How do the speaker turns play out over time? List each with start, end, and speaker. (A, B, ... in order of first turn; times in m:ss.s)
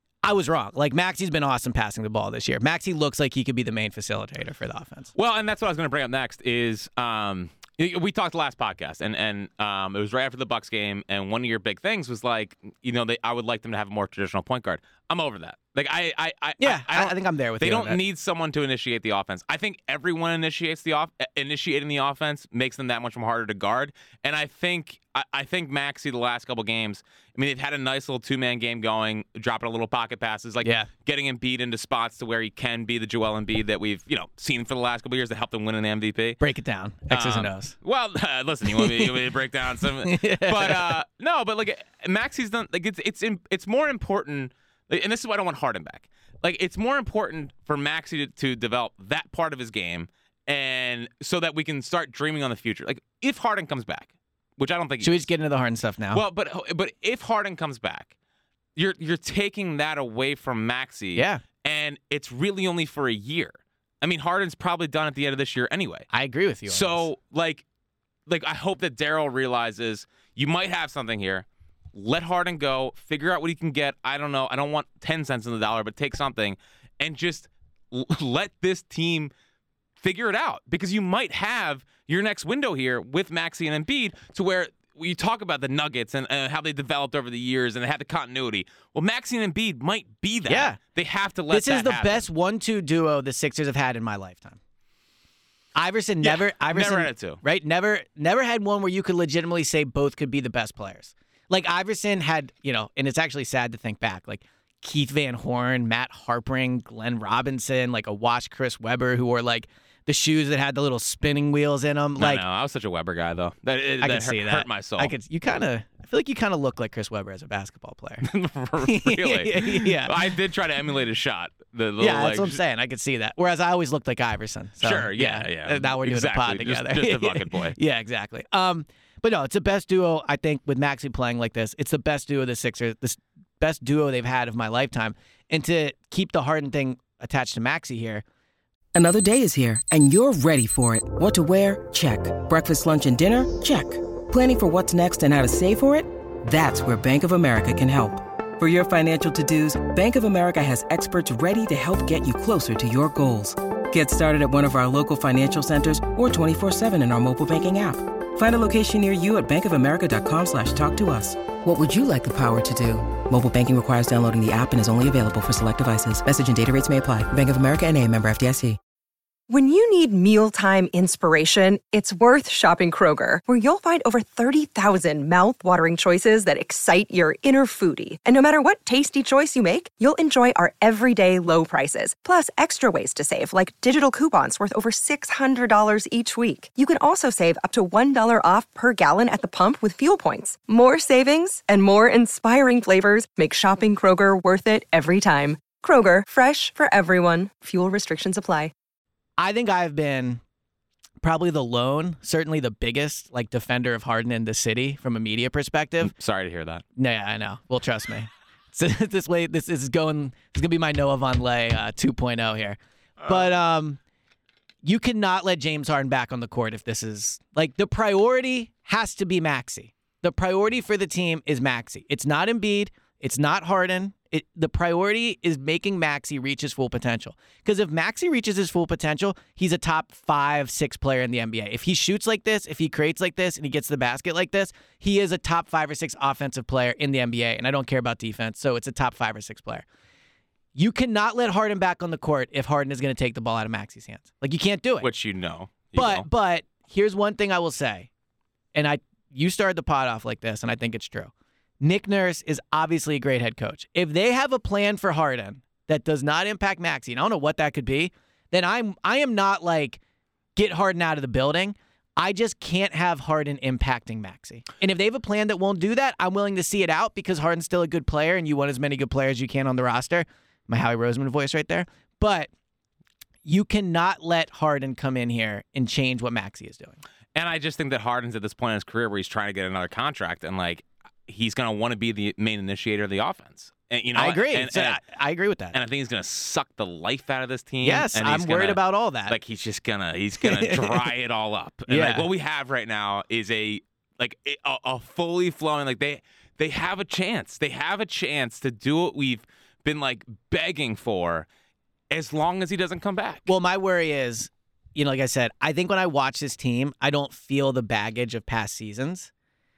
0:00.2-0:05.1 A
0:05.1-0:36.4 B
0:16.6-0:18.0 A
0:30.6-0:30.9 A
0:36.4-0:37.7 A
0:37.1-0:55.3 B
0:38.6-0:39.2 A
0:40.0-0:41.0 A
0:55.0-0:56.2 A
0:56.1-0:58.1 B
0:58.8-1:06.1 B
1:01.1-1:01.4 A
1:06.1-1:07.1 A
1:06.7-1:07.6 B
1:08.3-1:19.3 B
1:20.0-1:32.2 B
1:30.4-1:30.8 A
1:31.5-1:34.6 A
1:35.8-1:52.4 A
1:36.2-1:37.4 B
1:52.2-1:55.1 B
1:54.0-1:58.2 A
1:58.2-2:02.6 B
1:58.8-2:00.4 A
2:02.0-2:18.2 A
2:04.8-2:07.8 B
2:18.9-2:48.8 C
2:49.5-3:18.7 D
3:19.4-3:20.4 A
3:21.2-3:26.1 A
3:26.0-3:26.8 B
3:27.0-3:34.0 A
3:34.8-3:59.8 A
4:00.7-4:05.1 A
4:05.0-4:06.2 B
4:05.9-4:08.1 A
4:08.7-4:20.0 A
4:20.6-4:32.5 A
4:33.4-4:37.0 A
4:37.3-4:45.0 B
4:44.1-4:45.8 A
4:45.7-5:01.5 B
4:47.8-4:49.4 A
4:50.4-4:51.1 A
4:51.9-4:52.3 A
5:02.1-5:03.5 B
5:03.4-5:09.3 A